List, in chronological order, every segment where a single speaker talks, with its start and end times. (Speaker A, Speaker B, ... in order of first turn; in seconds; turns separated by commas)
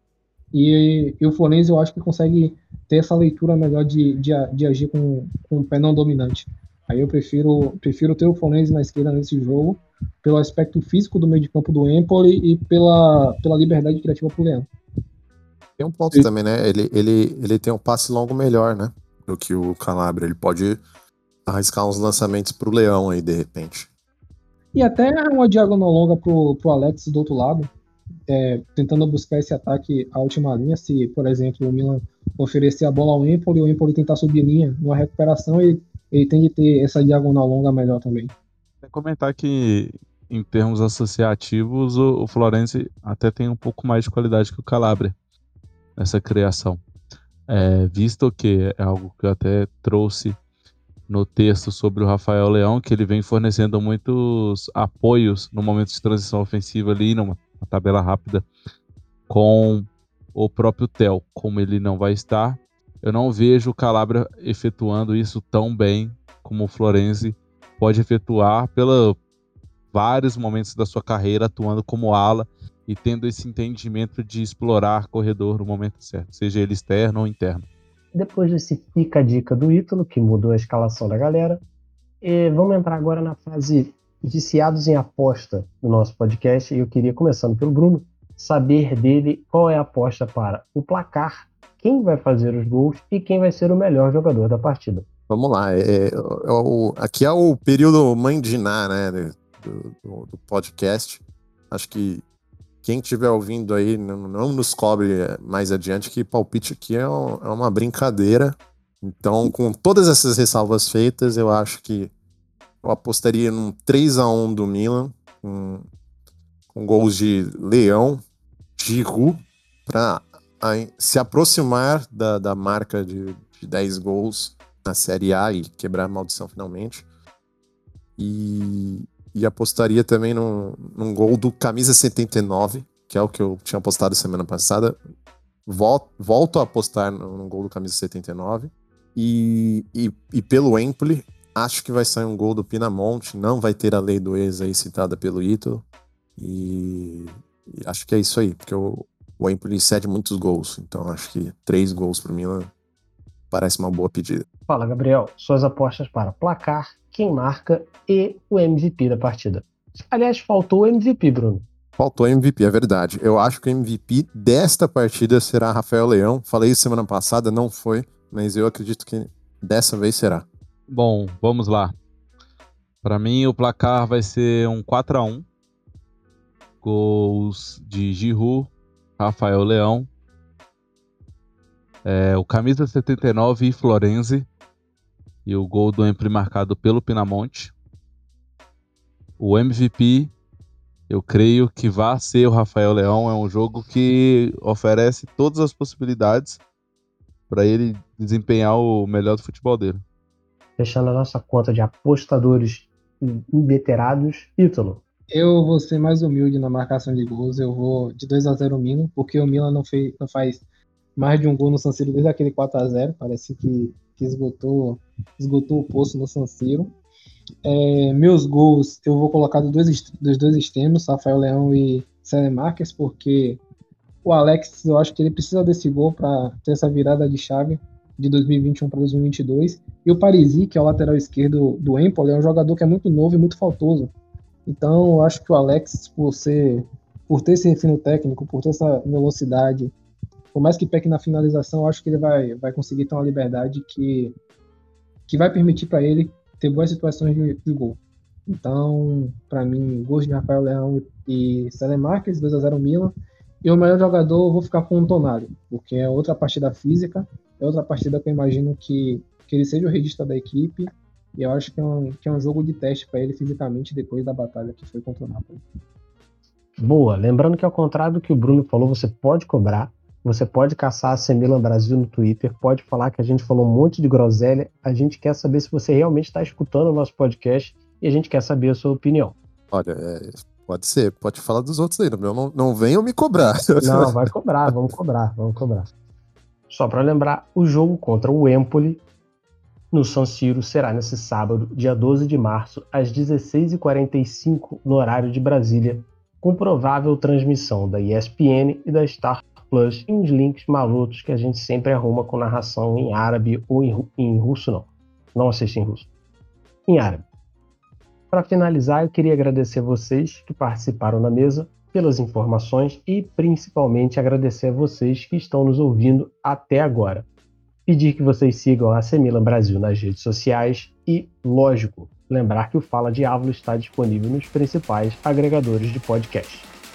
Speaker A: 0.5-14.7, Speaker B: 15.8-20.8, Speaker B: 21.5-23.9, Speaker A: 24.7-27.7, Speaker A: 28.3-38.3, Speaker C: 38.8-45.1, Speaker C: 46.0-46.8, Speaker C: 47.5-50.4, Speaker C: 51.1-58.5, Speaker C: 59.3-69.2, Speaker C: 69.9-77.7, Speaker D: 78.1-81.6, Speaker D: 82.2-95.1, Speaker B: 95.3-102.2, Speaker B: 102.8-112.1, Speaker B: 112.8-115.9, Speaker B: 116.7-118.2, Speaker B: 118.8-127.0, Speaker B: 128.2-135.0, Speaker B: 135.7-145.8, Speaker B: 146.4-152.7, Speaker B: 153.5-154.4, Speaker D: 154.7-161.7, Speaker B: 162.0-170.5, Speaker C: 170.9-171.9, Speaker C: 173.0-175.4, Speaker C: 176.8-180.1, Speaker C: 182.0-184.5, Speaker C: 185.4-187.7, Speaker C: 189.4-190.3, Speaker C: 191.1-196.6, Speaker C: 197.5-200.0, Speaker D: 200.8-205.0, Speaker A: 205.3-210.6, Speaker A: 211.2-216.9, Speaker A: 217.6-223.6, Speaker A: 224.2-234.1, Speaker A: 234.7-239.9, Speaker A: 240.5-244.3, Speaker A: 245.3-265.6, Speaker D: 266.8-279.4, Speaker B: 279.7-284.1, Speaker D: 283.8-285.9, Speaker D: 286.7-289.0, Speaker D: 289.9-306.1, Speaker D: 306.9-307.2, Speaker D: 308.3-317.3, Speaker D: 317.9-326.7